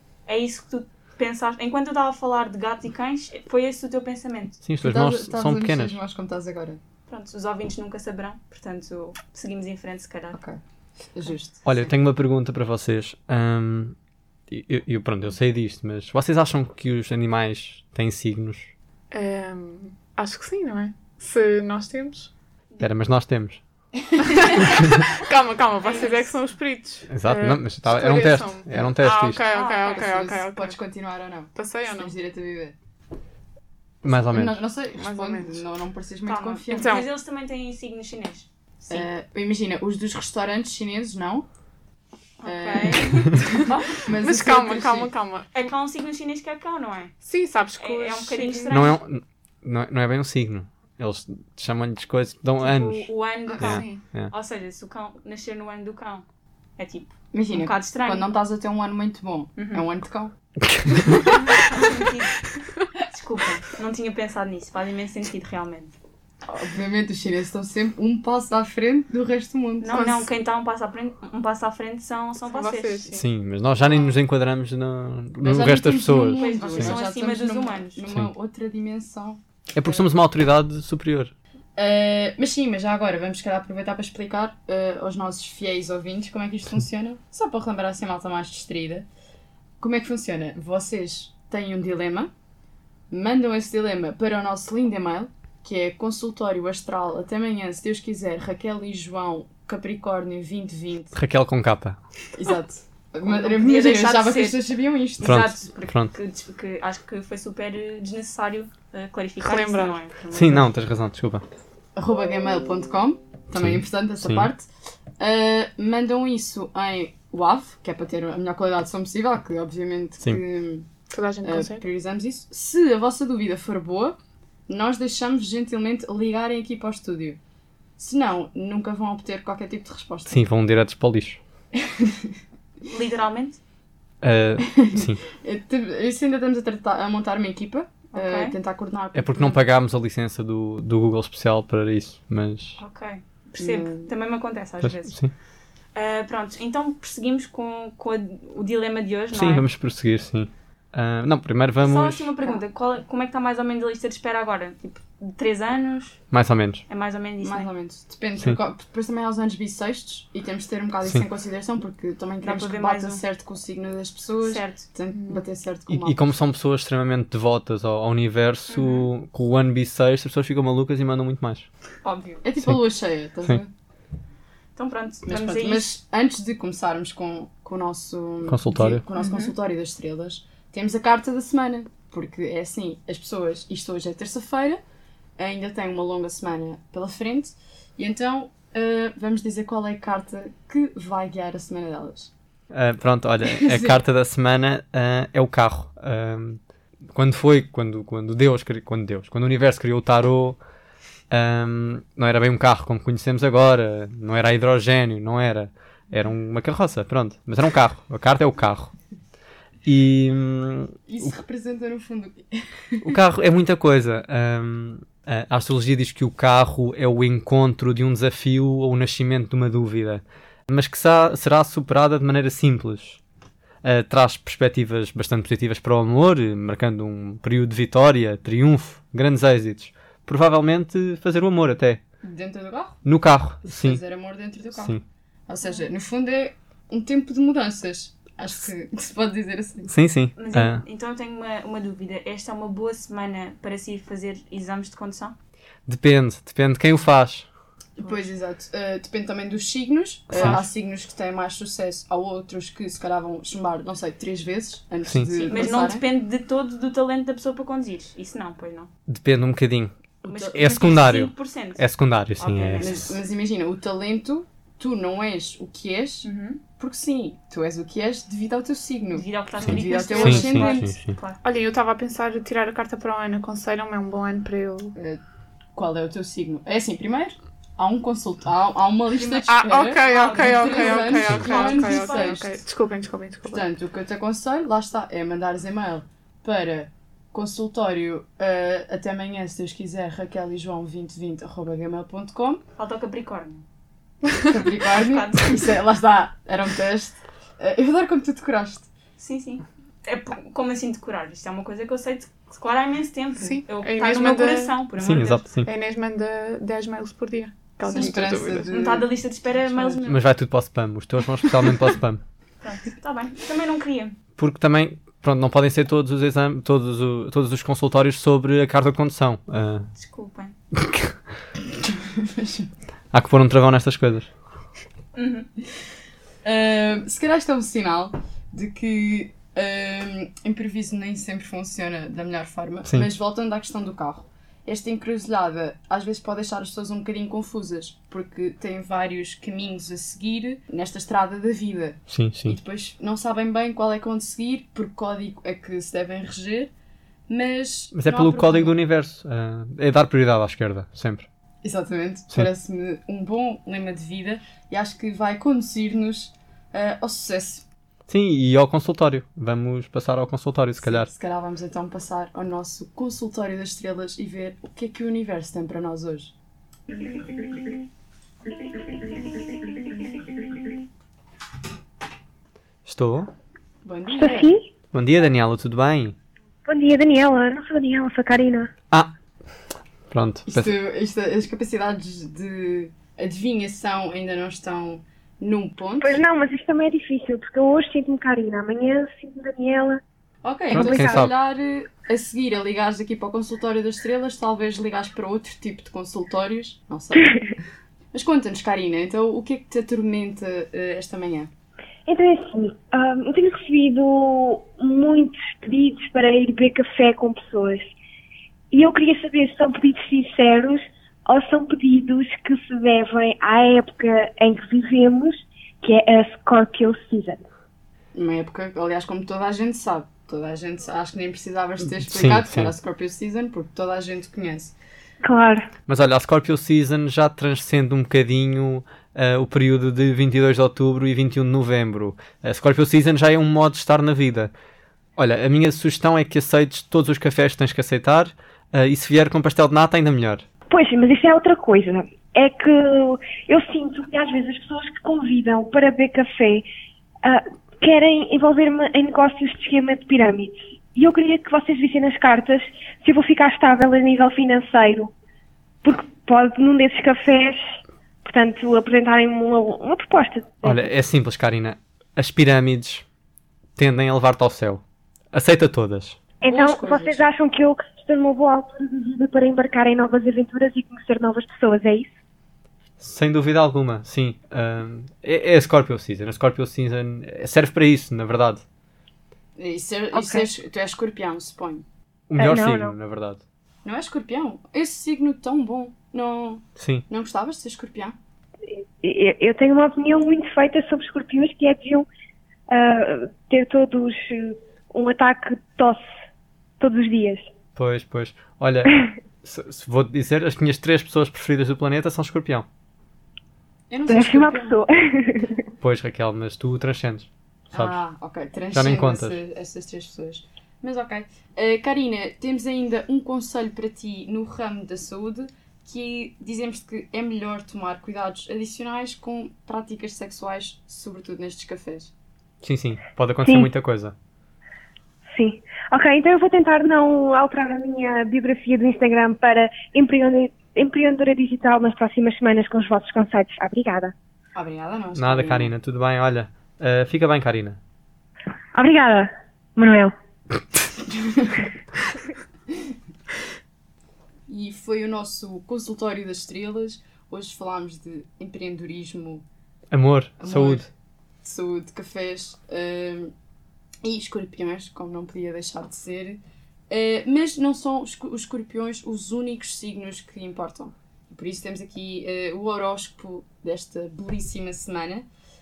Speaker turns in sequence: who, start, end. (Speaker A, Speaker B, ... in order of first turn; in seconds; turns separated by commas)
Speaker A: 0.3-4.6, Speaker B: 4.6-6.0, Speaker C: 4.8-6.8, Speaker A: 7.1-10.4, Speaker C: 10.3-11.9, Speaker B: 11.7-14.0, Speaker B: 14.5-18.7, Speaker D: 19.1-22.3, Speaker B: 22.8-23.6, Speaker C: 24.1-24.4, Speaker D: 24.2-30.8, Speaker B: 24.6-24.9, Speaker A: 25.8-26.4, Speaker B: 27.1-29.4, Speaker A: 29.4-30.1, Speaker C: 29.9-32.8, Speaker D: 31.6-32.1, Speaker B: 34.0-34.6, Speaker C: 34.3-37.0, Speaker D: 35.0-35.6, Speaker A: 36.3-39.1, Speaker D: 36.7-37.1, Speaker C: 38.9-41.5, Speaker A: 42.4-43.8, Speaker C: 42.4-45.1, Speaker D: 43.5-45.7, Speaker A: 45.5-47.1, Speaker D: 47.2-49.0, Speaker A: 47.8-49.0, Speaker B: 48.7-53.1, Speaker A: 52.6-56.2, Speaker D: 53.5-54.0, Speaker B: 53.6-54.3, Speaker A: 56.8-58.3, Speaker C: 57.3-60.3, Speaker A: 59.6-59.9, Speaker B: 60.6-61.5, Speaker A: 61.3-62.4, Speaker A: 63.0-66.0, Speaker C: 66.5-70.0, Speaker A: 69.8-73.1, Speaker D: 69.9-70.3, Speaker D: 72.5-73.2, Speaker B: 73.1-77.0, Speaker C: 75.4-80.1, Speaker A: 76.3-78.0, Speaker B: 79.7-81.3, Speaker C: 81.8-89.1, Speaker C: 89.8-92.3, Speaker C: 93.1-101.2, Speaker B: 101.2-102.0, Speaker C: 102.3-105.5, Speaker A: 103.2-110.7, Speaker B: 105.2-106.2, Speaker D: 109.4-110.0, Speaker B: 110.3-111.5, Speaker C: 112.0-114.7, Speaker B: 113.5-114.5, Speaker C: 115.2-120.9, Speaker D: 121.1-121.8, Speaker C: 121.4-127.4, Speaker C: 128.0-130.4, Speaker B: 130.3-131.4, Speaker C: 131.8-132.3, Speaker A: 132.8-133.6, Speaker B: 134.2-135.2, Speaker C: 134.6-139.6, Speaker A: 138.1-138.6, Speaker B: 139.2-142.8, Speaker A: 142.8-145.2, Speaker C: 143.6-144.1, Speaker B: 144.8-145.3, Speaker A: 145.9-149.7, Speaker B: 149.3-152.3, Speaker A: 151.8-156.2, Speaker B: 156.3-156.8, Speaker A: 156.9-157.7, Speaker C: 157.4-166.3, Speaker A: 162.4-163.2, Speaker A: 164.4-165.4, Speaker B: 165.9-171.7, Speaker A: 168.7-169.1, Speaker A: 172.0-172.4, Speaker C: 172.4-173.7, Speaker A: 174.8-176.0, Speaker C: 175.3-184.8, Speaker B: 178.5-179.0, Speaker A: 179.2-179.5, Speaker C: 185.4-192.3, Speaker B: 192.7-200.6, Speaker C: 193.4-194.0, Speaker B: 201.3-208.9, Speaker B: 209.8-211.3, Speaker C: 211.1-213.2, Speaker B: 213.0-223.2, Speaker B: 223.8-232.0, Speaker C: 232.2-233.0, Speaker B: 233.1-234.0, Speaker C: 233.7-239.9, Speaker B: 234.8-235.0, Speaker B: 239.9-240.8, Speaker A: 240.4-245.3, Speaker B: 245.9-247.5, Speaker A: 248.0-248.3, Speaker C: 248.0-256.1, Speaker B: 250.3-250.7, Speaker B: 255.0-255.5, Speaker A: 255.5-258.9, Speaker B: 259.1-263.1, Speaker A: 260.2-261.8, Speaker C: 260.3-260.7, Speaker A: 262.4-263.1, Speaker C: 262.8-270.9, Speaker A: 266.2-266.6, Speaker A: 269.1-271.4, Speaker B: 269.6-271.2, Speaker D: 271.4-274.9, Speaker C: 274.9-275.2, Speaker C: 275.7-282.6, Speaker A: 279.1-282.6, Speaker D: 279.5-283.7, Speaker C: 283.5-292.6, Speaker A: 292.8-293.6, Speaker C: 294.4-298.9, Speaker A: 294.9-295.6, Speaker A: 299.2-305.5, Speaker D: 303.4-304.8, Speaker B: 305.0-305.7, Speaker D: 305.6-308.7, Speaker C: 307.9-309.1, Speaker A: 307.9-310.2, Speaker C: 309.6-310.1, Speaker B: 310.1-312.2, Speaker A: 312.6-314.2, Speaker B: 314.4-319.9, Speaker A: 319.9-320.6, Speaker B: 320.7-321.2, Speaker C: 321.8-322.7, Speaker B: 323.1-324.3, Speaker A: 325.1-325.5, Speaker C: 326.4-346.7, Speaker B: 342.1-342.6, Speaker C: 347.3-348.8, Speaker B: 347.9-351.3, Speaker C: 351.6-357.6, Speaker B: 358.1-361.1, Speaker C: 360.8-366.3, Speaker B: 372.9-373.3, Speaker C: 373.8-374.6, Speaker E: 374.1-374.7, Speaker B: 374.9-376.2, Speaker E: 376.7-378.7, Speaker B: 380.1-380.7, Speaker C: 380.5-386.2, Speaker E: 386.0-390.0, Speaker C: 390.4-401.5, Speaker E: 390.7-391.3, Speaker B: 390.7-391.3, Speaker E: 402.1-407.9, Speaker E: 408.7-417.4, Speaker C: 418.1-424.8, Speaker B: 422.0-422.7, Speaker E: 425.2-425.7, Speaker B: 425.9-434.5, Speaker B: 435.2-440.5, Speaker E: 440.7-446.6, Speaker E: 447.2-455.1, Speaker E: 455.8-457.7, Speaker E: 458.2-460.9, Speaker B: 460.6-463.1, Speaker B: 463.8-466.2, Speaker E: 466.4-472.1, Speaker C: 466.5-467.2, Speaker B: 473.0-478.6, Speaker C: 479.6-481.9, Speaker E: 480.1-480.4, Speaker B: 482.3-483.4, Speaker E: 482.4-482.9, Speaker C: 483.9-488.2, Speaker B: 486.8-487.0, Speaker E: 488.7-492.1, Speaker E: 492.7-496.0, Speaker E: 496.8-497.5, Speaker B: 497.8-502.7, Speaker C: 503.9-504.8, Speaker E: 504.1-505.6, Speaker B: 505.8-508.0, Speaker C: 507.7-522.1, Speaker B: 508.7-509.4, Speaker B: 522.6-524.1, Speaker E: 523.4-523.7, Speaker E: 525.3-534.1, Speaker C: 534.5-535.7, Speaker B: 535.1-537.8, Speaker E: 538.7-540.1, Speaker C: 541.1-541.7, Speaker C: 544.5-549.5, Speaker B: 549.9-550.9, Speaker C: 550.4-550.9, Speaker C: 551.4-553.3, Speaker C: 554.0-565.3